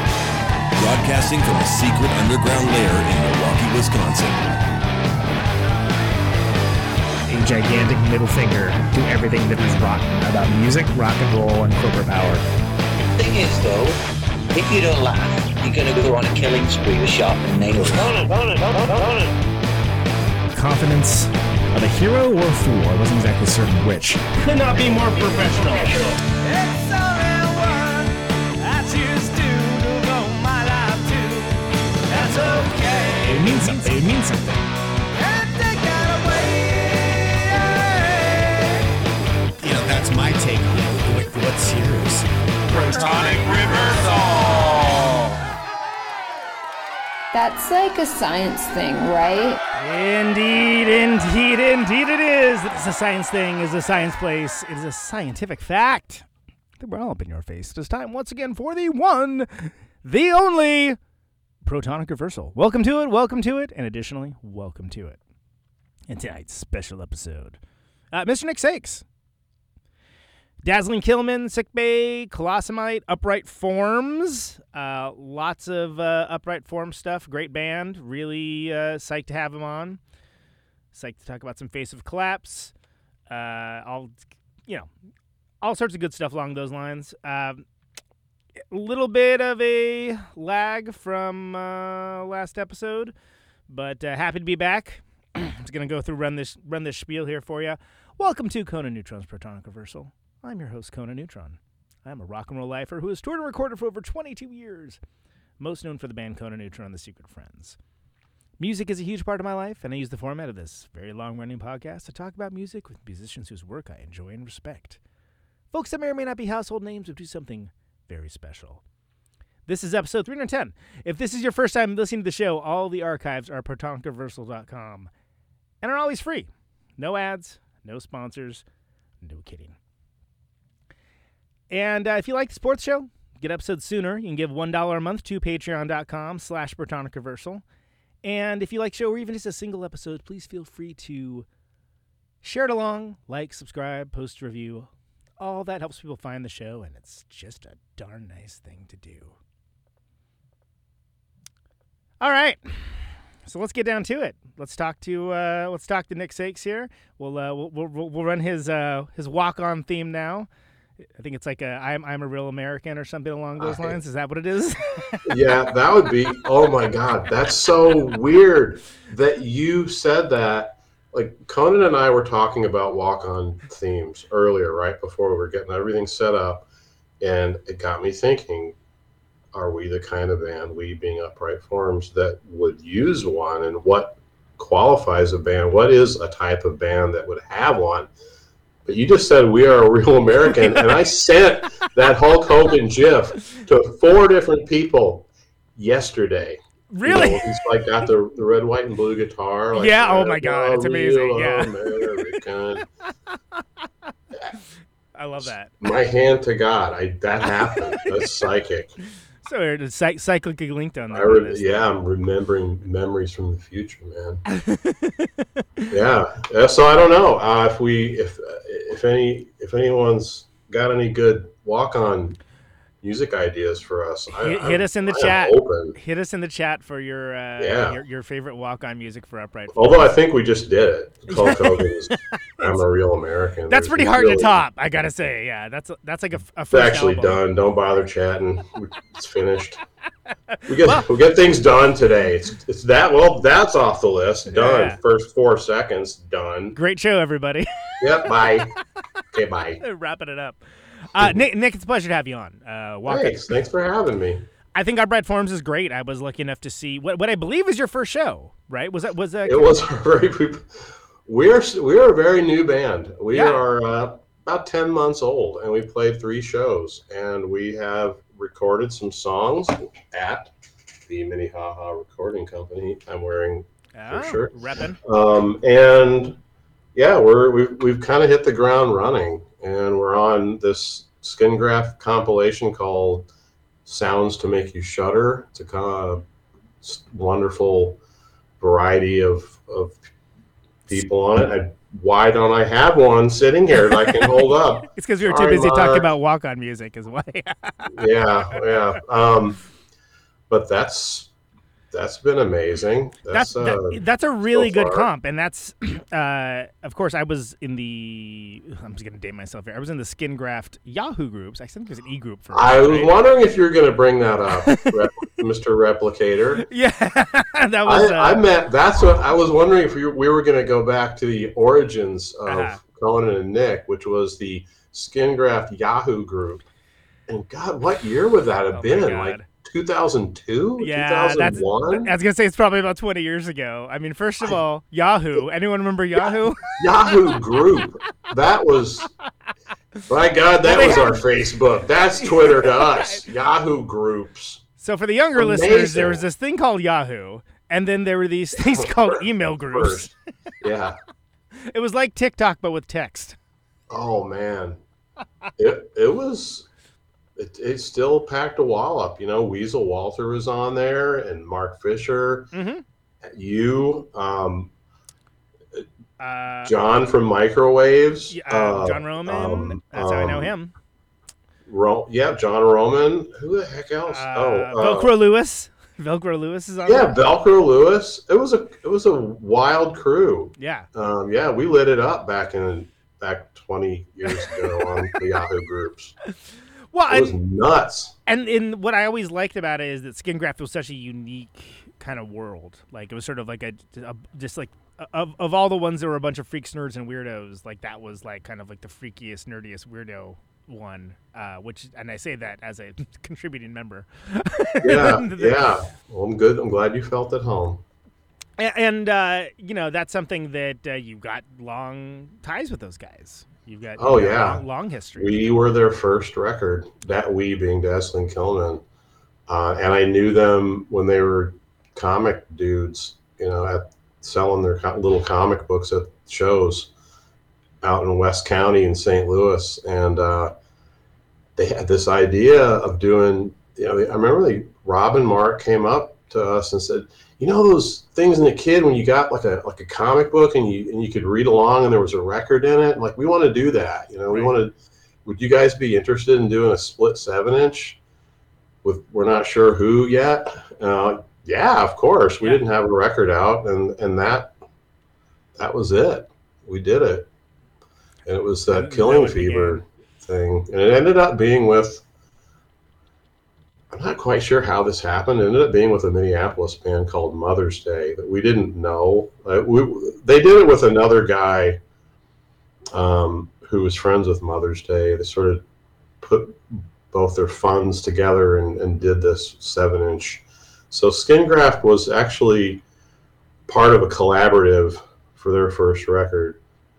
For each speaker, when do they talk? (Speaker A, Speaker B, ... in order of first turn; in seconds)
Speaker A: 0.7-4.5
Speaker B: 13.0-14.0, 14.5-19.3
Speaker C: 20.5-24.1, 33.2-34.5, 49.8-56.3, 56.8-61.0, 61.6-65.2, 66.1-67.6, 68.1-69.0, 70.6-80.0, 80.9-82.7, 83.3-84.9, 85.6-87.6, 88.7-93.1, 93.7-105.0, 105.6-107.8, 108.6-115.0, 115.7-118.8, 119.7-125.1, 125.8-128.6, 129.2-129.8, 131.7-137.6, 138.2-141.4, 142.4-149.3, 152.2-160.5, 161.1-165.3, 196.9-197.5, 199.7-202.0, 205.1-205.7, 209.4-211.7, 214.5-215.8, 224.3-230.1, 231.3-232.8, 233.7-237.4, 244.5-245.0, 246.7-248.6, 249.8-253.4, 254.7-259.8, 263.3-263.6, 273.9-275.0, 294.0-294.3, 294.9-298.8, 303.3-313.1, 316.6-318.4, 322.4-322.8, 328.7-329.4, 330.8-337.4, 340.6-341.2, 342.2-343.2, 344.8-350.1, 351.6-353.4, 362.5-362.8, 366.2-366.8, 368.3-370.7, 374.1-377.2, 380.6-380.9, 384.3-385.2, 386.9-387.4, 388.2-405.7, 408.6-415.4, 458.7-459.8
Speaker D: 24.4-28.0, 28.6-31.5, 32.1-33.6, 35.2-38.5, 42.7-44.2
Speaker E: 47.3-49.6
Speaker F: 163.6-164.0, 165.2-176.7, 177.2-178.8, 179.5-188.1, 188.8-202.9, 205.4-208.9, 211.1-214.4, 215.9-222.4, 223.0-226.0, 227.6-228.0, 229.7-234.6, 236.7-239.8, 240.7-246.8, 248.0-248.7, 249.3-249.8, 253.1-254.5, 259.4-270.5, 271.1-276.4, 276.9-283.3, 283.9-286.2, 286.8-288.0, 288.6-290.0, 290.9-296.1, 297.9-299.6, 300.5-301.3, 301.9-305.1, 312.5-316.6, 317.8-326.6, 327.3-332.1, 336.8-339.1, 340.1-344.6, 345.4-346.2, 348.5-350.1, 350.6-350.9, 353.9-354.8, 355.6-356.7, 357.4-362.5, 363.2-364.7, 366.6-370.5, 371.6-375.1, 376.9-386.1, 387.1-388.1, 404.8-407.8, 414.0-414.6, 415.1-418.8, 419.5-426.9, 427.8-430.5, 431.6-444.7, 445.2-448.0, 448.8-454.5, 455.6-457.3, 458.2-462.0, 463.9-471.8, 472.9-475.6, 476.2-482.8, 483.7-486.6